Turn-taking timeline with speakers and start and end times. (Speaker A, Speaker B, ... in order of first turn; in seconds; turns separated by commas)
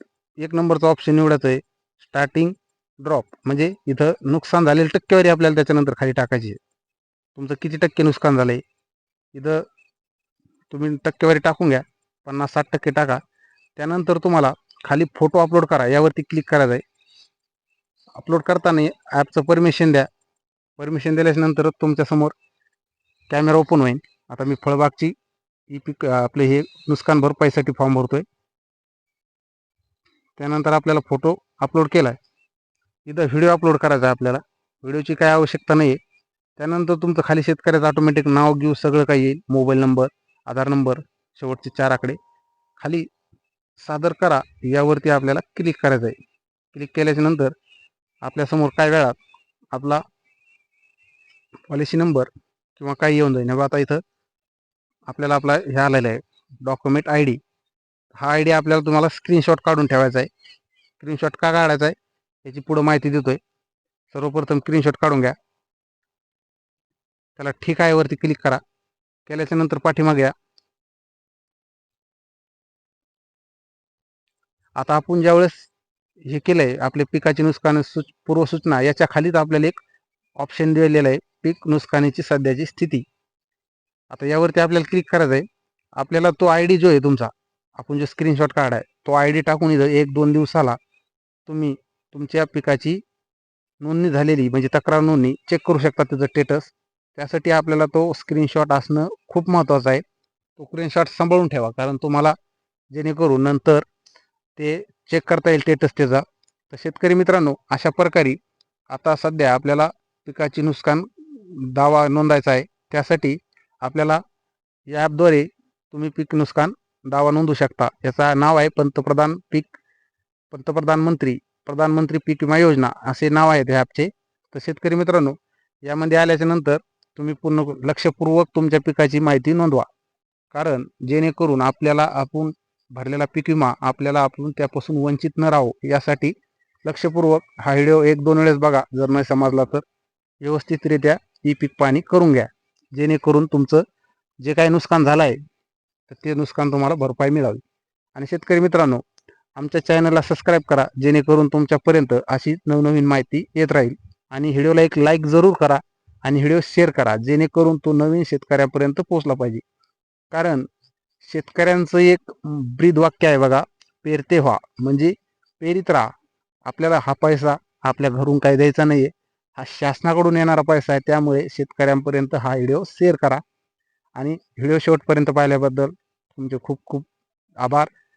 Speaker A: 0.4-6.6, Speaker A: 7.3-8.6, Speaker A: 9.3-9.7, Speaker A: 10.7-13.2, Speaker A: 13.8-16.8, Speaker A: 18.2-20.1, Speaker A: 20.8-22.3, Speaker A: 23.3-25.1, Speaker A: 25.7-28.2, Speaker A: 30.4-32.2, Speaker A: 33.1-36.0, Speaker A: 36.6-42.2, Speaker A: 42.8-43.1, Speaker A: 43.8-46.2, Speaker A: 46.7-47.5, Speaker A: 48.2-49.2, Speaker A: 49.7-50.0, Speaker A: 51.7-54.0, Speaker A: 55.1-57.4, Speaker A: 58.1-60.3, Speaker A: 61.0-63.4, Speaker A: 64.1-65.3, Speaker A: 67.4-68.6, Speaker A: 69.3-70.3, Speaker A: 74.8-75.7, Speaker A: 76.3-79.8, Speaker A: 80.4-83.1, Speaker A: 84.1-85.5, Speaker A: 86.0-90.8, Speaker A: 91.5-93.0, Speaker A: 93.8-100.0, Speaker A: 100.6-102.4, Speaker A: 102.9-103.8, Speaker A: 104.6-108.4, Speaker A: 108.9-114.2, Speaker A: 114.9-119.8, Speaker A: 120.5-129.9, Speaker A: 130.5-139.8, Speaker A: 140.4-143.8, Speaker A: 144.4-145.4, Speaker A: 146.1-147.6, Speaker A: 148.2-149.1, Speaker A: 149.6-159.6, Speaker A: 160.3-160.7, Speaker A: 161.2-166.1, Speaker A: 166.7-173.4, Speaker A: 174.2-177.1, Speaker A: 177.6-177.9